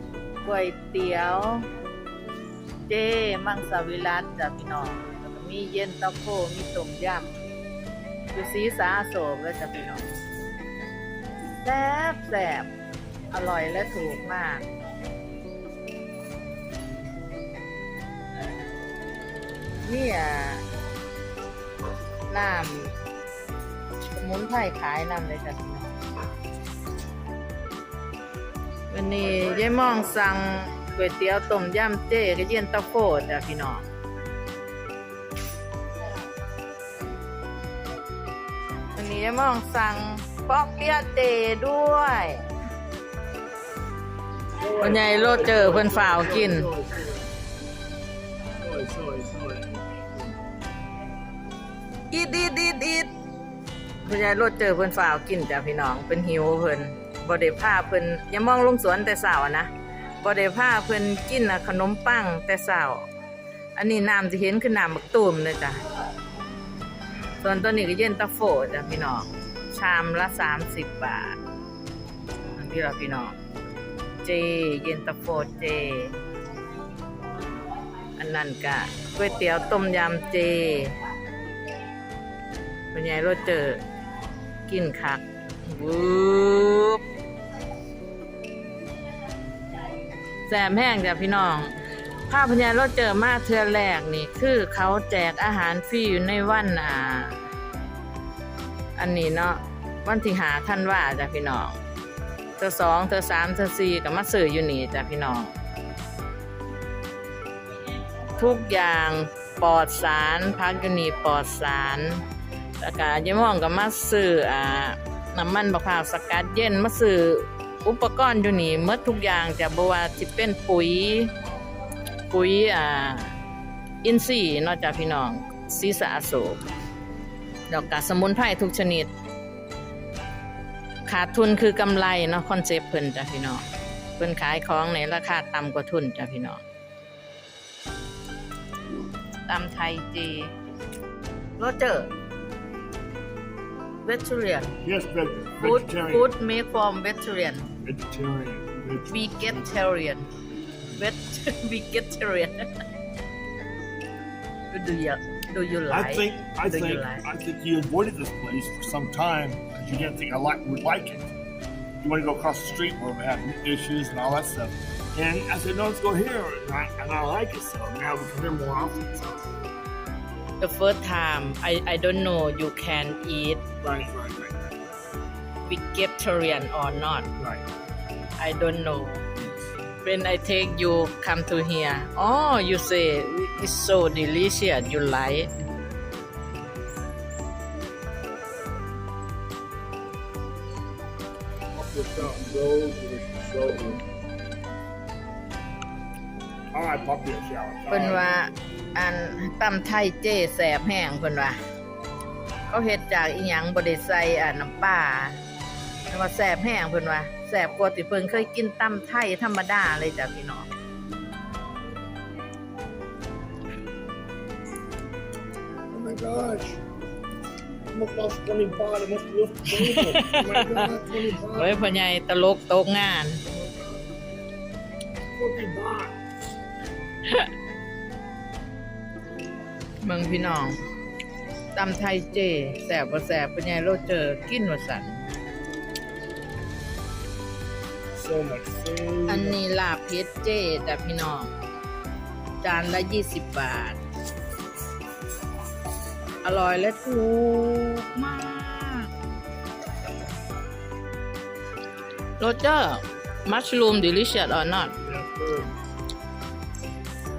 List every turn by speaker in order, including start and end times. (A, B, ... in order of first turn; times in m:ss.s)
0:00.4-0:01.6 A
0:02.9-0:07.3 A
0:08.3-0:10.1 A
0:11.6-0:12.7 A
0:13.3-0:14.7 A
0:19.8-0:20.6 A
0:22.3-0:22.9 A
0:24.1-0:26.0 A
0:28.9-0:33.8 A
0:38.9-0:42.4 A
0:44.6-0:47.3 B
0:44.8-0:46.7 A
0:48.6-0:50.4 B
0:52.1-0:53.1 A
0:54.0-0:59.7 A
1:00.2-1:03.1 A
1:03.8-1:05.8 A
1:07.4-1:11.4 A
1:12.6-1:13.4 A
1:14.2-1:16.1 A
1:18.2-1:20.9 A
1:22.9-1:23.8 A
1:24.7-1:27.0 A
1:30.5-1:31.7 A
1:32.3-1:37.4 A
1:39.0-1:41.8 A
1:42.6-1:45.5 A
1:48.4-1:52.2 A
1:52.8-2:01.3 A
2:02.3-2:03.3 A
2:04.0-2:06.6 A
2:07.7-2:09.1 A
2:11.0-2:13.6 A
2:14.2-2:16.6 A
2:19.5-2:20.5 A
2:21.6-2:22.1 A
2:24.0-2:24.7 A
2:24.8-2:26.3 B
2:25.6-2:27.7 A
2:27.8-2:29.6 B
2:29.1-2:30.3 A
2:31.0-2:32.7 A
2:34.7-2:37.3 A
2:35.9-2:41.3 B
2:42.0-2:49.3 B
2:50.6-2:53.7 A
2:53.8-2:54.5 B
2:55.6-2:57.3 A
2:57.4-2:57.6 B
2:58.4-2:59.3 A
3:00.0-3:05.5 A
3:11.7-3:14.0 B
3:16.7-3:18.3 B
3:17.9-3:21.6 A
3:22.7-3:25.4 A
3:26.1-3:30.7 A
3:35.9-3:36.8 B
3:37.9-3:41.8 B
3:39.7-3:43.4 A
3:43.4-3:44.1 B
3:45.4-3:46.2 B
3:50.0-3:50.8 A
3:51.7-3:55.2 A
3:58.2-3:59.6 B
3:59.3-4:01.5 A
4:02.6-4:04.0 A
4:06.4-4:09.1 A
4:12.4-4:15.0 A
4:15.0-4:15.7 B